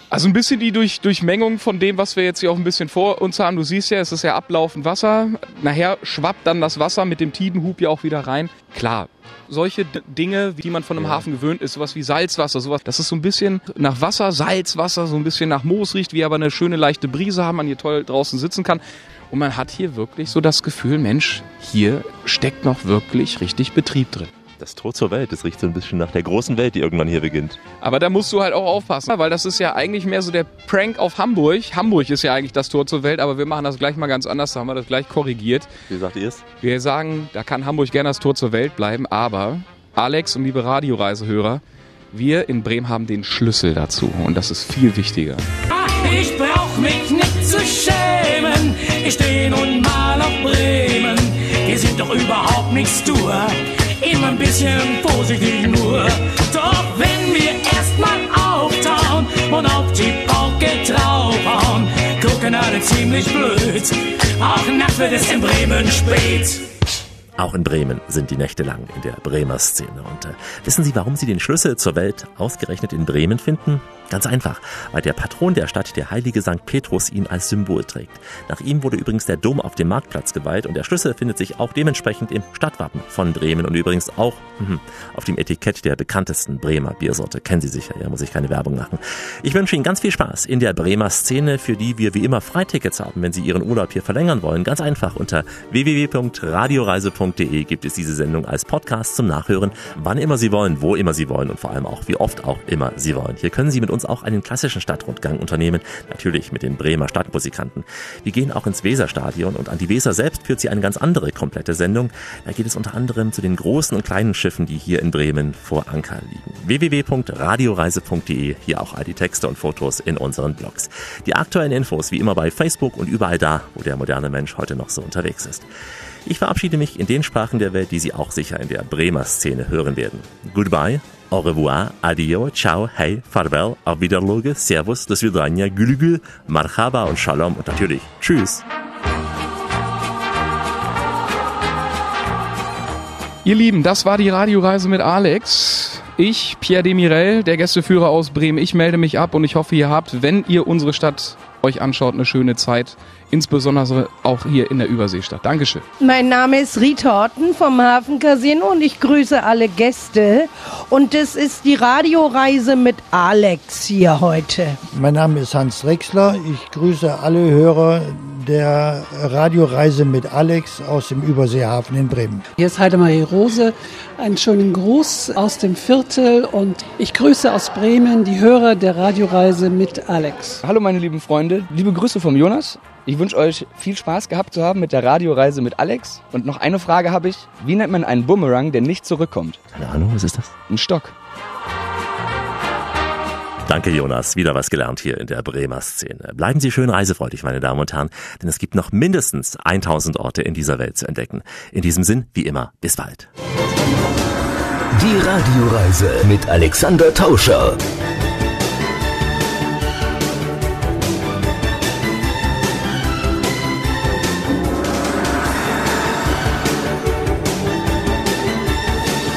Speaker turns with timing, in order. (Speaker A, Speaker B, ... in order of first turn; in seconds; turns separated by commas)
Speaker A: 0.1-24.3, Speaker B: 11.0-11.2, Speaker B: 24.6-27.6, Speaker A: 27.8-35.7, Speaker B: 35.9-36.4, Speaker A: 36.6-45.5, Speaker C: 45.7-66.7, Speaker B: 67.4-125.6, Speaker B: 126.2-138.6, Speaker A: 143.4-155.8, Speaker D: 156.0-164.8, Speaker E: 164.9-172.4, Speaker F: 172.6-180.6, Speaker G: 180.6-189.6, Speaker B: 189.7-190.5, Speaker G: 190.7-191.1, Speaker B: 193.7-203.3, Speaker H: 204.9-207.8